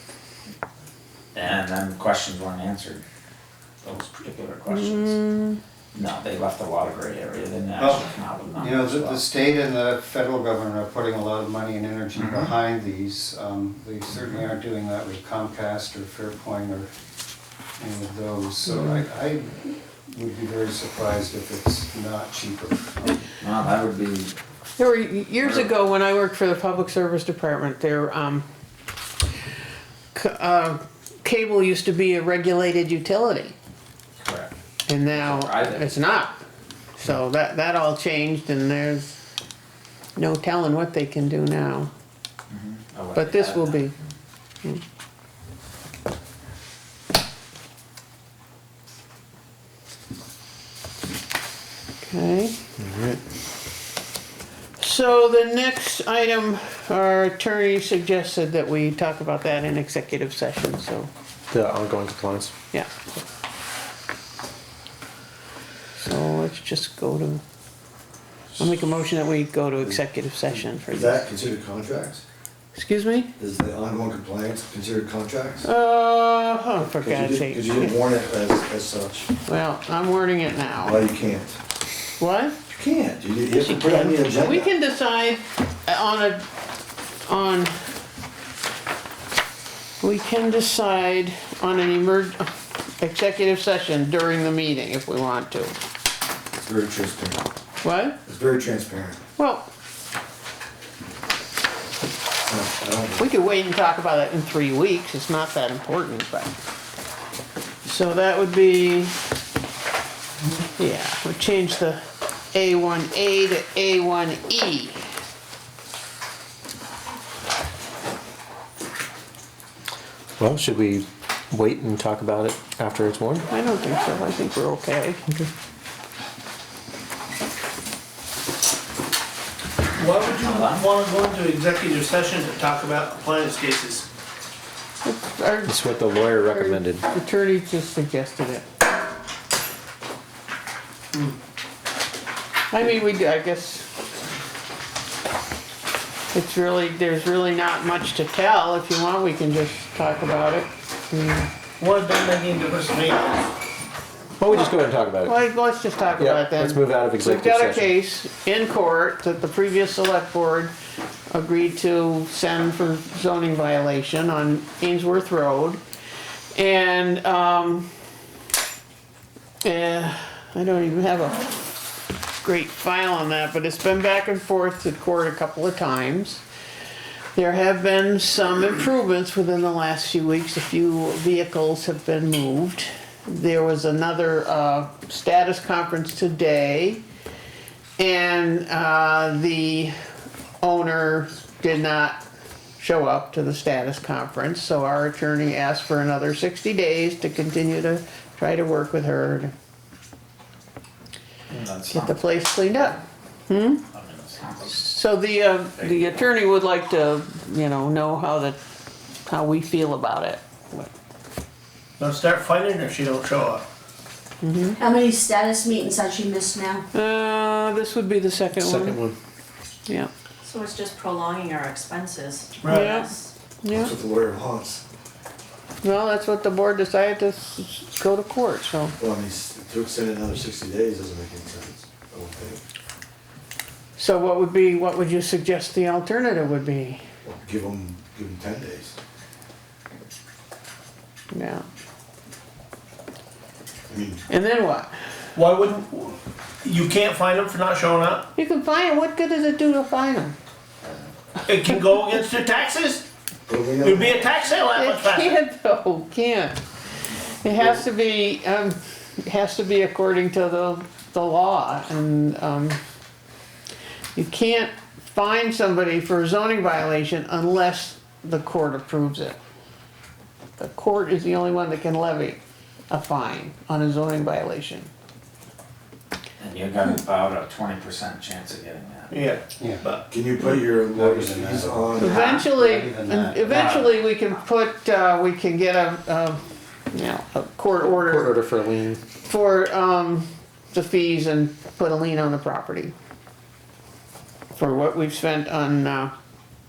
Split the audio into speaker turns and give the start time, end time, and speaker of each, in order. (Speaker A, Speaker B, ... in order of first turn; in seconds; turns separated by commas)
Speaker A: 1.3-3.0, Speaker A: 3.8-5.2, Speaker B: 4.7-5.6, Speaker A: 5.9-9.2, Speaker C: 7.8-16.9, Speaker A: 12.2-12.5, Speaker C: 17.8-23.2, Speaker B: 18.7-19.0, Speaker A: 23.4-24.3, Speaker B: 24.8-28.4, Speaker A: 25.4-25.7, Speaker B: 30.1-33.6, Speaker A: 34.2-34.5, Speaker B: 34.9-36.4, Speaker A: 35.1-35.9, Speaker B: 37.0-39.2, Speaker B: 40.2-41.9, Speaker A: 42.5-44.0, Speaker B: 43.2-43.9, Speaker B: 52.0-52.6, Speaker D: 52.8-53.2, Speaker B: 54.8-61.1, Speaker D: 61.5-62.5, Speaker B: 62.7-63.0, Speaker B: 66.0-67.4, Speaker B: 68.6-71.3, Speaker E: 70.9-72.2, Speaker B: 72.7-73.3, Speaker E: 73.4-75.7, Speaker B: 75.6-78.0, Speaker E: 76.8-79.3, Speaker B: 79.5-81.0, Speaker E: 80.8-81.6, Speaker B: 82.2-82.6, Speaker E: 82.7-84.7, Speaker B: 83.6-86.5, Speaker B: 87.3-87.7, Speaker B: 90.0-92.5, Speaker B: 93.0-95.7, Speaker E: 96.6-97.5, Speaker B: 97.8-98.2, Speaker E: 98.3-99.2, Speaker B: 99.4-99.7, Speaker E: 102.5-103.3, Speaker B: 103.2-106.5, Speaker B: 107.8-109.2, Speaker B: 110.8-112.0, Speaker B: 112.5-115.0, Speaker D: 120.4-123.5, Speaker B: 123.5-125.2, Speaker F: 130.0-134.1, Speaker A: 130.4-130.8, Speaker B: 135.0-135.8, Speaker D: 135.7-137.1, Speaker B: 136.4-138.7, Speaker B: 142.7-143.9, Speaker B: 146.3-151.5, Speaker F: 151.8-153.5, Speaker D: 154.4-155.4, Speaker B: 155.2-160.7, Speaker D: 156.2-157.9, Speaker B: 161.3-165.8, Speaker B: 166.5-167.9, Speaker B: 169.6-171.5, Speaker B: 172.4-176.4, Speaker B: 177.3-187.0, Speaker B: 188.0-189.9, Speaker B: 190.6-192.2, Speaker B: 192.8-199.5, Speaker A: 201.5-203.0, Speaker B: 201.9-203.8, Speaker A: 203.9-204.9, Speaker B: 204.7-208.6, Speaker A: 205.8-206.2, Speaker B: 209.3-210.9, Speaker F: 212.0-213.7, Speaker B: 214.4-214.8, Speaker G: 214.8-216.8, Speaker B: 216.9-219.0, Speaker D: 218.6-219.2, Speaker H: 220.4-223.3, Speaker F: 222.6-223.0, Speaker B: 222.7-223.1, Speaker B: 223.6-223.9, Speaker E: 223.7-224.8, Speaker B: 225.8-228.9, Speaker E: 229.0-232.6, Speaker B: 234.0-237.0, Speaker E: 237.2-238.9, Speaker B: 241.3-241.7, Speaker E: 243.9-244.2, Speaker B: 244.3-244.9, Speaker F: 245.3-248.3, Speaker B: 248.4-250.4, Speaker F: 251.4-253.1, Speaker E: 253.5-254.5, Speaker F: 253.8-255.4, Speaker B: 254.8-256.6, Speaker B: 257.4-262.8, Speaker B: 264.1-269.4, Speaker B: 270.6-274.9, Speaker A: 276.4-279.1, Speaker F: 279.1-280.0, Speaker E: 280.1-282.4, Speaker C: 280.9-283.8, Speaker B: 282.0-286.4, Speaker A: 283.5-284.0, Speaker B: 286.9-288.4, Speaker D: 287.9-289.0, Speaker B: 289.2-292.9, Speaker B: 294.5-296.1